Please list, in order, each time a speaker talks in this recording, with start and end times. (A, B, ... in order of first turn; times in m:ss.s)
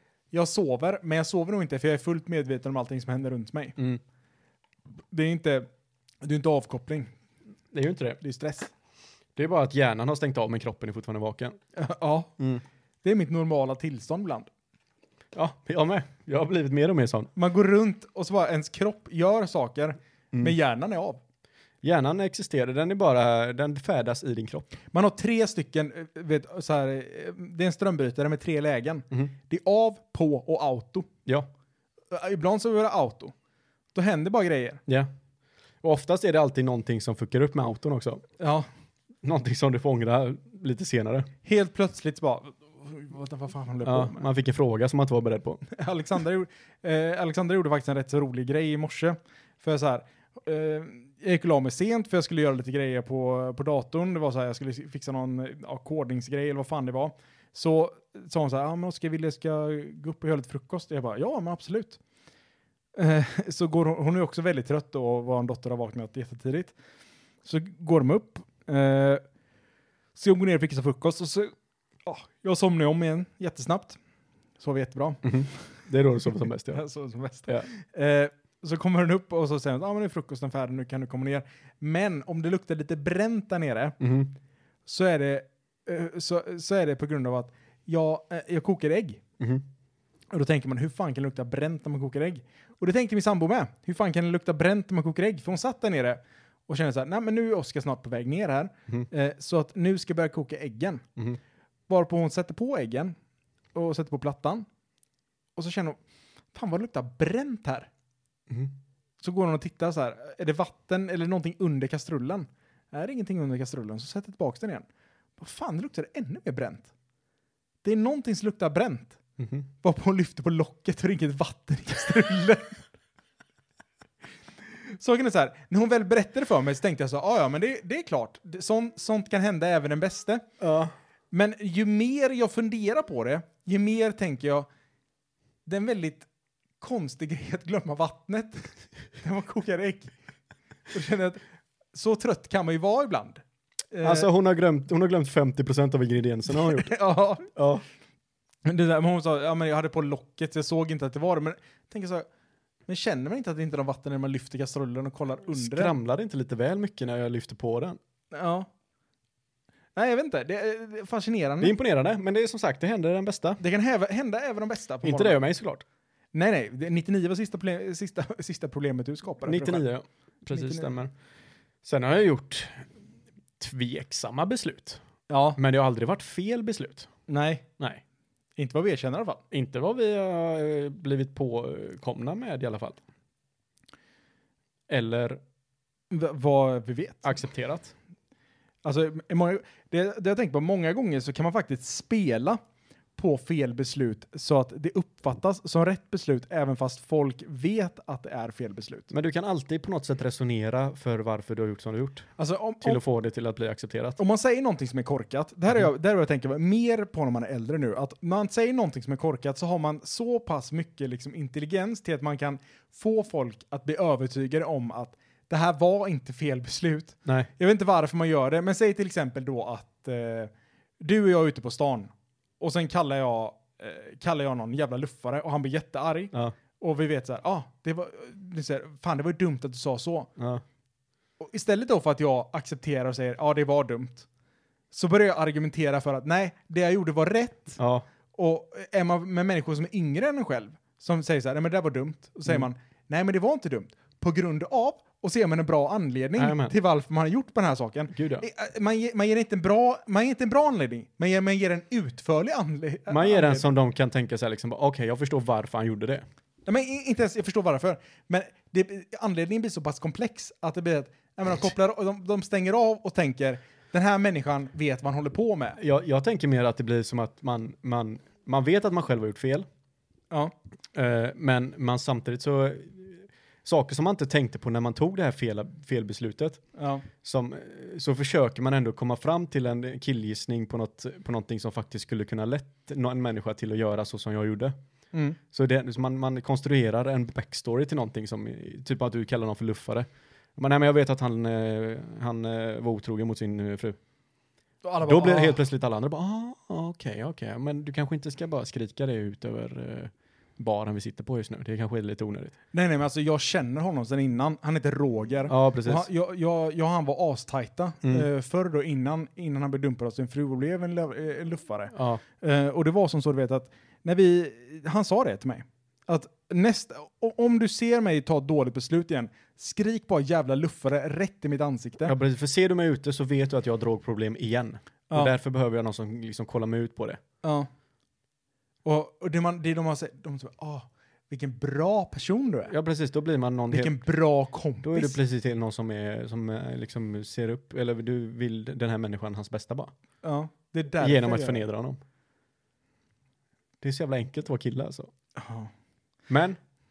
0:00.3-0:03.8 A
0:05.1-0:05.7 A
0:06.2-0:07.1 A
0:07.7-0:08.2 B
0:08.2-0:08.7 A
0:09.4-0:11.6 B
0:11.8-0:12.4 A
0:13.0-0:14.5 A
0:15.3-0:17.3 B
0:17.4-0:21.2 A
0:21.8-0:24.7 B
0:24.9-0:31.1 A
0:32.1-0:33.3 A
0:33.9-0:34.8 A
0:35.8-0:38.2 B
0:38.4-0:38.7 A
0:39.2-0:41.3 B
0:41.4-0:44.3 A
0:43.8-0:45.6 B
0:45.7-1:02.0 A
1:02.9-1:06.7 A
1:07.4-1:09.2 A
1:10.2-1:11.5 A
1:12.0-1:14.0 A
1:14.6-1:15.7 A
1:15.2-1:16.8 B
1:16.7-1:24.0 A
1:24.0-1:24.3 B
1:24.8-1:29.2 A
1:30.3-1:41.0 A
1:41.9-1:43.2 A
1:43.7-1:44.6 A
1:45.6-1:46.0 A
1:46.5-1:47.9 A
1:48.5-1:48.7 B
1:49.2-1:54.9 A
1:55.4-1:56.9 A
1:57.8-1:59.2 A
1:59.4-1:59.6 B
1:59.8-2:02.8 A
2:04.8-2:10.4 A
2:10.6-2:10.9 B
2:11.3-2:14.7 A
2:15.6-2:16.3 A
2:16.8-2:20.1 A
2:20.9-2:21.4 A
2:21.9-2:24.3 A
2:24.0-2:26.9 B
2:26.5-2:27.5 A
2:27.5-2:27.8 B
2:28.6-2:32.3 A
2:32.9-2:35.9 A
2:35.5-2:38.0 B
2:38.3-2:38.7 A
2:40.0-2:41.7 A
2:41.6-2:43.6 B
2:43.6-2:45.4 A
2:45.0-2:45.8 B
2:46.3-2:49.9 A
2:49.4-2:51.1 B
2:50.5-2:50.9 A
2:51.8-2:52.9 B
2:53.6-2:55.0 B
2:55.3-2:55.6 A
2:55.6-2:57.1 B
2:57.3-2:57.6 A
2:58.6-2:59.4 A
2:59.5-3:03.0 B
3:04.9-3:05.4 B
3:06.1-3:07.3 A
3:07.2-3:07.9 B
3:08.8-3:12.6 A
3:13.2-3:19.1 A
3:19.1-3:22.3 B
3:22.4-3:23.0 A
3:22.8-3:24.2 B
3:24.2-3:50.3 A
3:50.4-3:50.6 B
3:51.4-3:54.3 A
3:54.9-3:57.8 A
3:57.8-3:58.0 B
3:58.3-4:13.6 A
4:06.4-4:06.7 B
4:08.1-4:08.4 B
4:13.1-4:16.2 B
4:16.6-4:25.8 A
4:25.8-4:29.6 B
4:30.9-4:36.6 B
4:36.8-4:37.0 A
4:37.2-4:44.7 B
4:45.1-4:45.4 A
4:45.5-4:54.0 B
4:54.8-4:55.6 A
4:55.0-5:02.5 B
5:02.7-5:22.1 A
5:05.5-5:06.0 B
5:11.9-5:12.2 B
5:22.0-5:27.2 B
5:27.4-5:27.7 A
5:28.8-5:32.7 A
5:32.7-5:34.0 B
5:33.7-5:35.2 A
5:34.8-5:39.9 B
5:40.2-5:41.6 A
5:41.0-5:42.0 B
5:43.8-5:45.1 B
5:45.4-5:45.7 A
5:46.3-5:46.6 B